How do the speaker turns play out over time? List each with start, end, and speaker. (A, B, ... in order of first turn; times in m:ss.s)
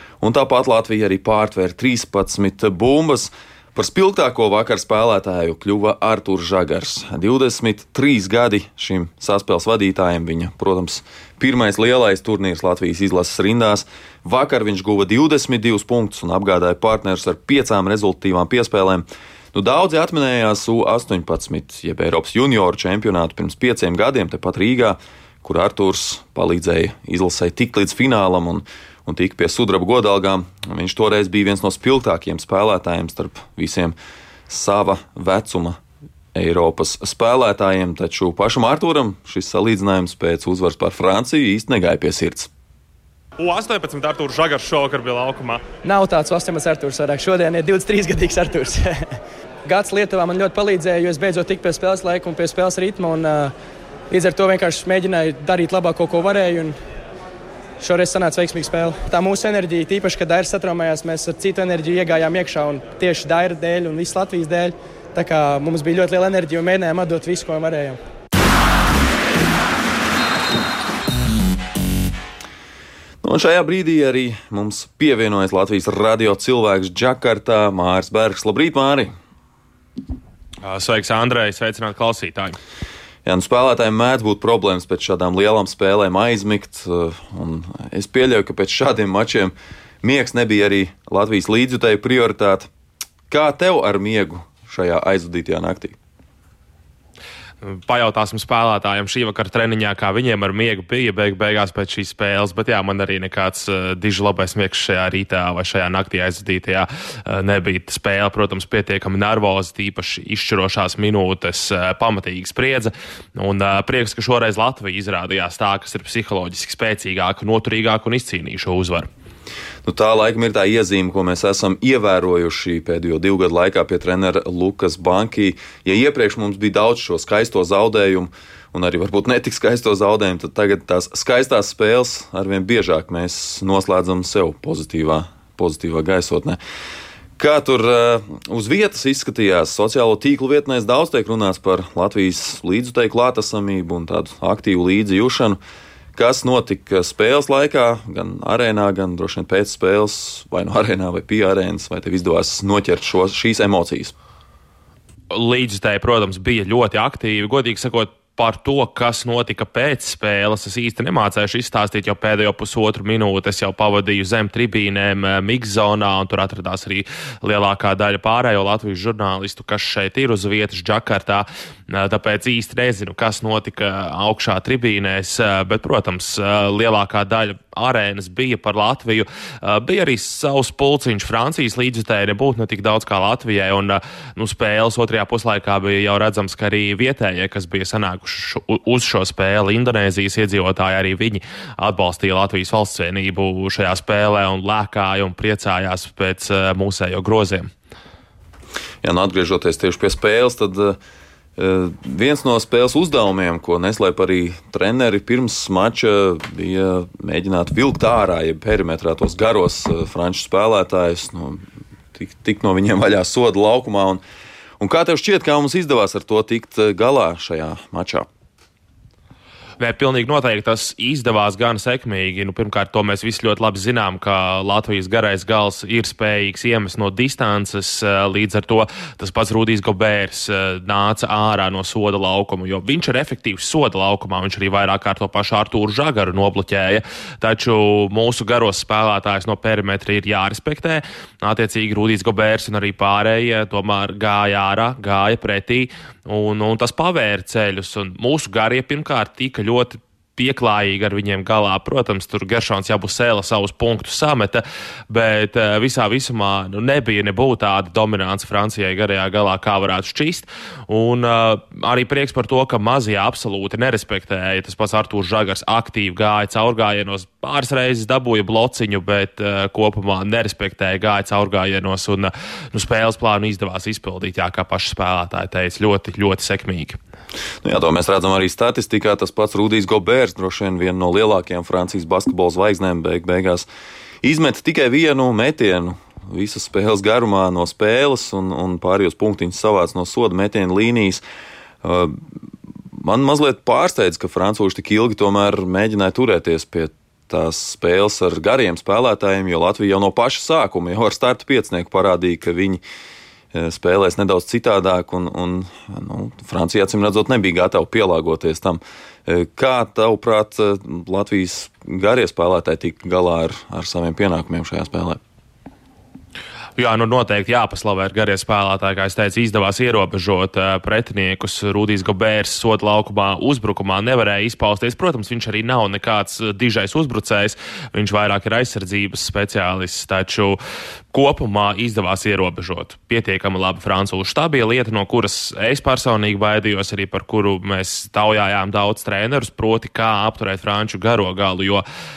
0:00.2-0:34.0 A
0:34.5-0:35.8 A
0:36.3-0:42.5 A
0:43.4-0:45.6 B
0:45.8-0:53.5 C
0:54.1-0:56.8 C
0:57.8-1:08.0 C
1:13.2-1:19.1 A
1:20.6-1:22.6 B
1:23.2-1:32.7 A
1:33.3-1:36.0 A
1:37.6-1:59.1 B
1:59.8-2:16.6 A
2:17.4-2:25.6 A
2:26.1-2:34.1 A
2:35.3-3:17.7 B
3:19.0-3:21.0 A
3:21.6-3:31.6 A
3:32.1-3:34.2 A
3:34.8-3:38.3 A
3:39.8-4:37.0 B
4:37.6-4:43.7 A
4:44.2-4:51.2 A
4:51.8-4:52.2 A
4:53.0-5:02.8 A
5:03.5-5:15.2 A
5:16.8-5:30.6 B
5:31.1-5:41.8 B